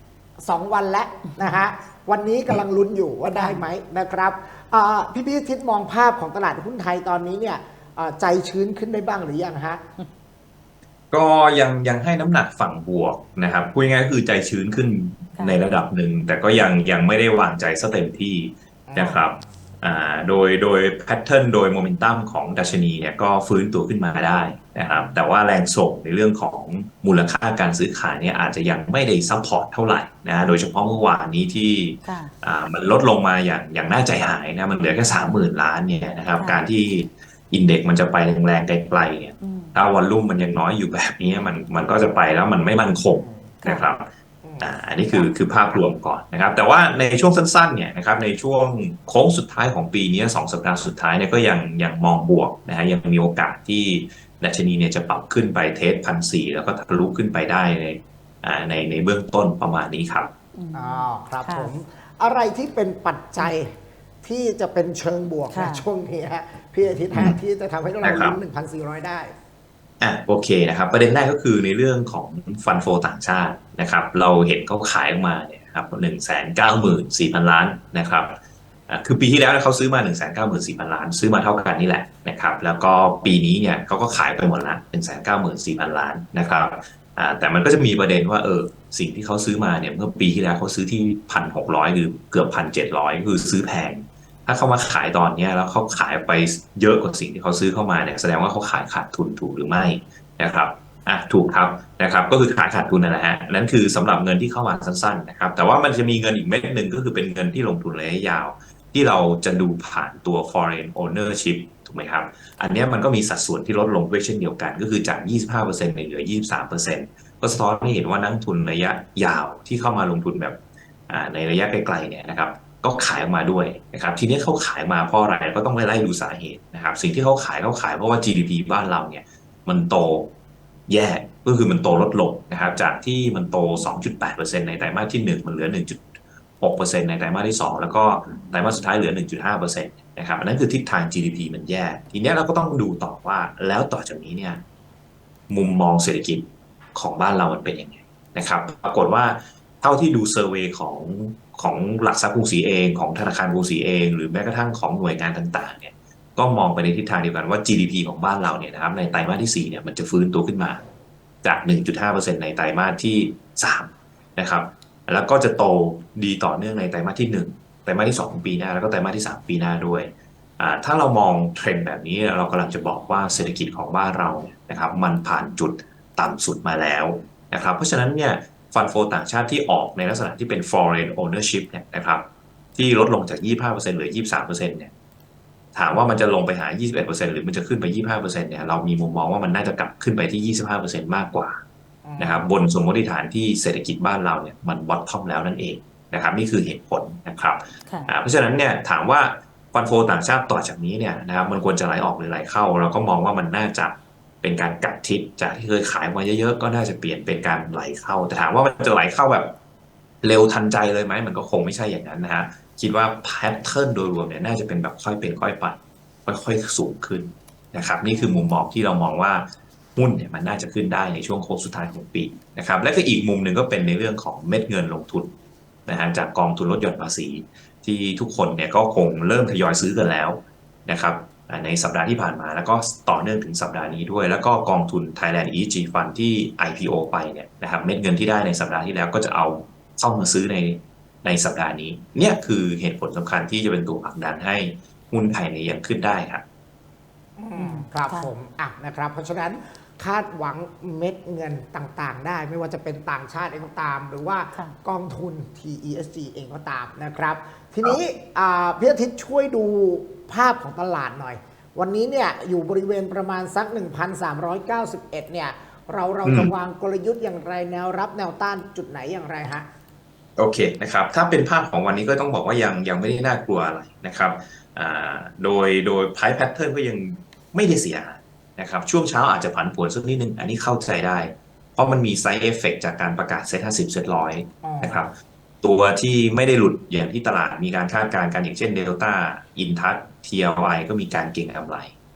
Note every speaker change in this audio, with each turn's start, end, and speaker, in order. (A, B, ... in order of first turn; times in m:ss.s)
0:00.4-0:09.8 A
0:03.3-0:03.6 B
0:11.1-0:44.1 C
0:15.4-0:15.6 B
0:18.9-0:19.2 A
0:32.0-0:32.3 B
0:36.4-0:36.7 B
0:39.4-0:39.8 B
0:43.1-0:43.5 A
0:43.6-0:43.9 B
0:44.4-0:45.3 A
0:44.6-1:00.3 C
1:00.6-1:01.7 B
1:00.7-1:09.3 A
1:05.5-1:05.8 B
1:08.0-1:08.4 C
1:10.0-1:18.4 C
1:18.9-2:00.6 C
2:01.1-2:10.3 C
2:10.9-2:16.0 C
2:16.6-2:24.6 C
2:25.5-2:40.8 C
2:41.4-3:04.9 C
3:05.7-3:11.6 C
3:12.0-3:12.5 A
3:12.2-3:29.5 C
3:30.2-3:45.3 C
3:38.1-3:38.4 B
3:45.9-4:06.4 C
4:07.4-4:29.7 A
4:07.6-4:08.3 B
4:26.2-4:26.5 C
4:30.4-4:52.0 C
4:44.6-4:45.1 A